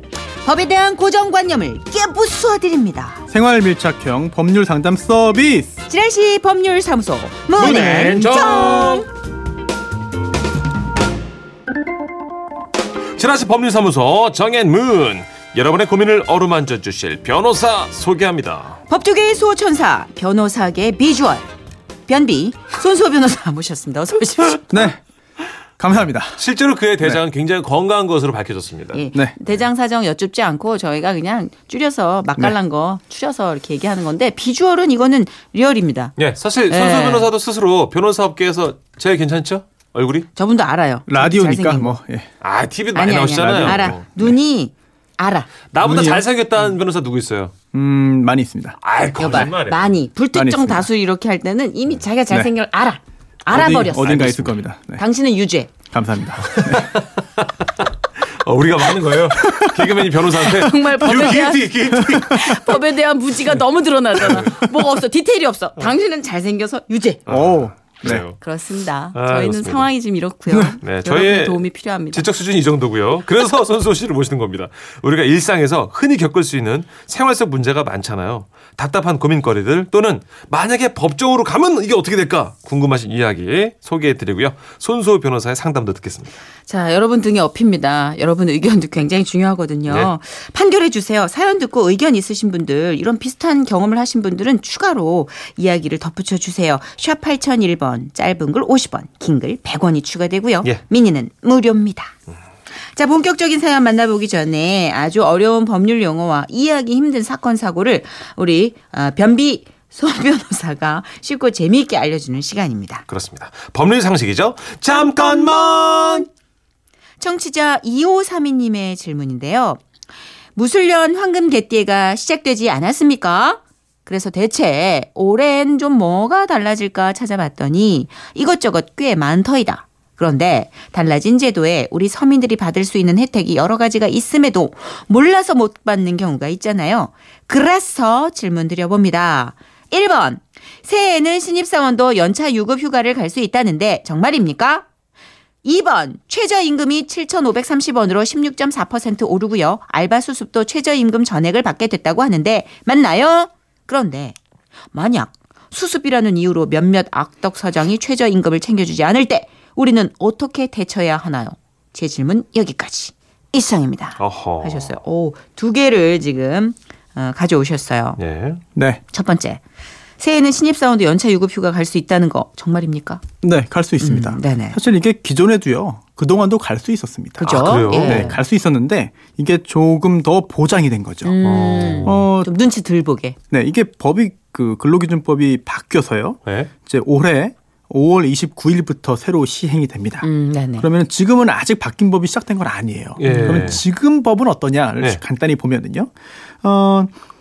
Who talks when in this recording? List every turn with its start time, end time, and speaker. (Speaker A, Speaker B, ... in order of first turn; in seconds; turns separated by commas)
Speaker A: 0.4-3.2, Speaker B: 3.3-5.8, Speaker A: 5.9-9.1, Speaker C: 7.5-9.1, Speaker C: 13.2-18.8, Speaker A: 18.9-21.4, Speaker A: 22.1-24.9, Speaker B: 24.7-25.0, Speaker B: 25.8-26.4, Speaker C: 26.4-29.1, Speaker A: 28.9-36.1, Speaker C: 36.2-40.3, Speaker A: 36.7-37.3, Speaker A: 40.4-42.0, Speaker B: 41.1-42.3, Speaker C: 42.4-44.1, Speaker A: 42.9-45.5, Speaker B: 43.3-44.4, Speaker C: 45.7-47.5, Speaker B: 45.8-46.3, Speaker B: 47.7-48.8, Speaker C: 48.8-50.0, Speaker A: 49.2-54.3, Speaker B: 50.3-50.9, Speaker B: 53.5-55.0, Speaker C: 53.5-54.6, Speaker A: 55.0-55.7, Speaker B: 55.9-57.0, Speaker C: 56.5-57.5, Speaker C: 58.2-62.7, Speaker B: 59.4-60.0, Speaker A: 60.4-67.2, Speaker B: 64.4-64.6, Speaker B: 67.3-68.2, Speaker C: 67.3-68.4, Speaker A: 68.4-72.2, Speaker C: 69.1-69.9, Speaker C: 70.8-86.3, Speaker A: 86.7-102.1, Speaker C: 89.9-90.1, Speaker A: 102.9-113.0, Speaker C: 113.1-116.3, Speaker A: 114.9-116.2, Speaker A: 117.2-119.8, Speaker A: 120.5-144.9, Speaker A: 145.6-154.4, Speaker A: 154.9-168.2, Speaker C: 164.2-164.9, Speaker C: 168.2-168.6, Speaker B: 168.8-169.0, Speaker A: 169.1-169.6, Speaker A: 170.2-173.2, Speaker B: 173.4-181.4, Speaker A: 174.0-174.8, Speaker A: 177.4-178.4, Speaker C: 177.5-178.4, Speaker A: 181.2-183.4, Speaker C: 181.4-182.3, Speaker B: 182.0-182.5, Speaker B: 183.5-197.1, Speaker C: 186.4-186.7, Speaker A: 190.2-190.9, Speaker C: 193.2-193.8, Speaker A: 193.2-193.8